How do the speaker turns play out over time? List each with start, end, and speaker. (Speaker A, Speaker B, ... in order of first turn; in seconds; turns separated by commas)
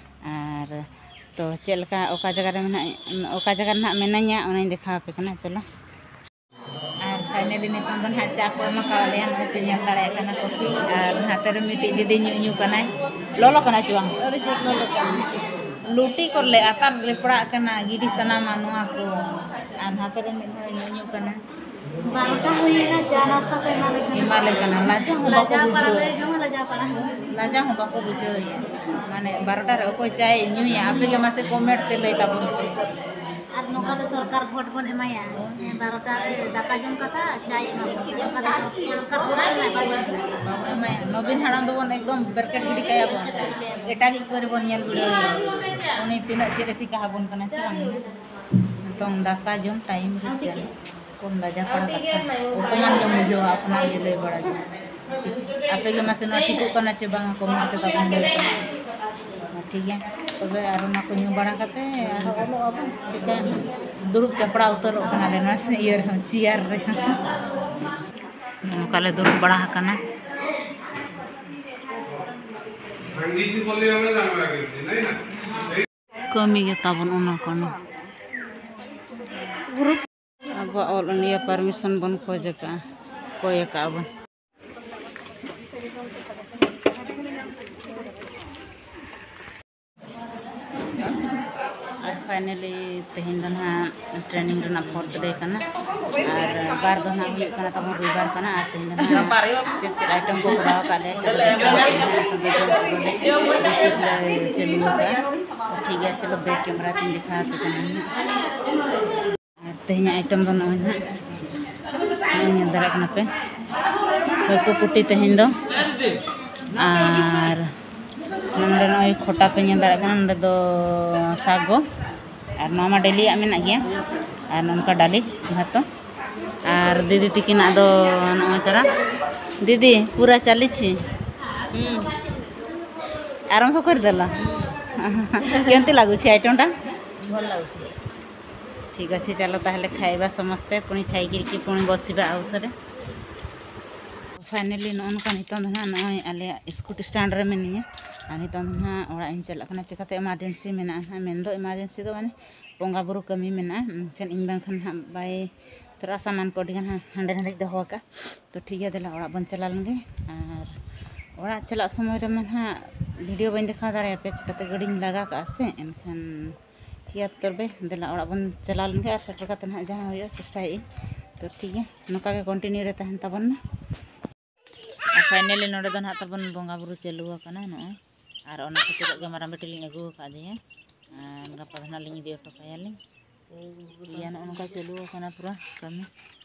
Speaker A: 0.3-0.8, Speaker A: 1.4-5.6, Speaker A: 7.0-14.2, Speaker B: 14.4-15.2, Speaker A: 15.9-21.4, Speaker B: 22.1-27.1, Speaker A: 24.1-26.2, Speaker A: 27.3-32.8, Speaker B: 33.5-40.3, Speaker A: 33.8-34.0, Speaker A: 35.4-35.7, Speaker A: 40.4-48.0, Speaker B: 43.2-43.8, Speaker A: 48.8-50.7, Speaker A: 51.2-58.6, Speaker A: 59.5-67.2, Speaker A: 68.7-70.0, Speaker A: 76.3-77.8, Speaker A: 79.7-80.0, Speaker A: 80.6-82.7, Speaker A: 83.4-84.1, Speaker A: 92.0-95.6, Speaker A: 96.2-105.2, Speaker A: 105.7-108.1, Speaker A: 109.6-111.0, Speaker A: 112.3-113.3, Speaker A: 114.5-115.5, Speaker A: 116.7-117.6, Speaker A: 118.5-121.8, Speaker A: 122.6-123.8, Speaker A: 124.5-125.8, Speaker A: 126.7-128.8, Speaker A: 129.6-130.9, Speaker B: 131.7-132.1, Speaker A: 133.5-134.3, Speaker A: 135.0-136.7, Speaker A: 138.9-142.7, Speaker A: 144.4-155.4, Speaker A: 156.0-160.7, Speaker A: 161.4-162.7, Speaker A: 163.2-166.2, Speaker A: 167.1-170.8, Speaker A: 171.4-173.6, Speaker A: 175.2-177.9, Speaker A: 178.5-180.5, Speaker A: 181.1-182.9, Speaker A: 184.0-186.1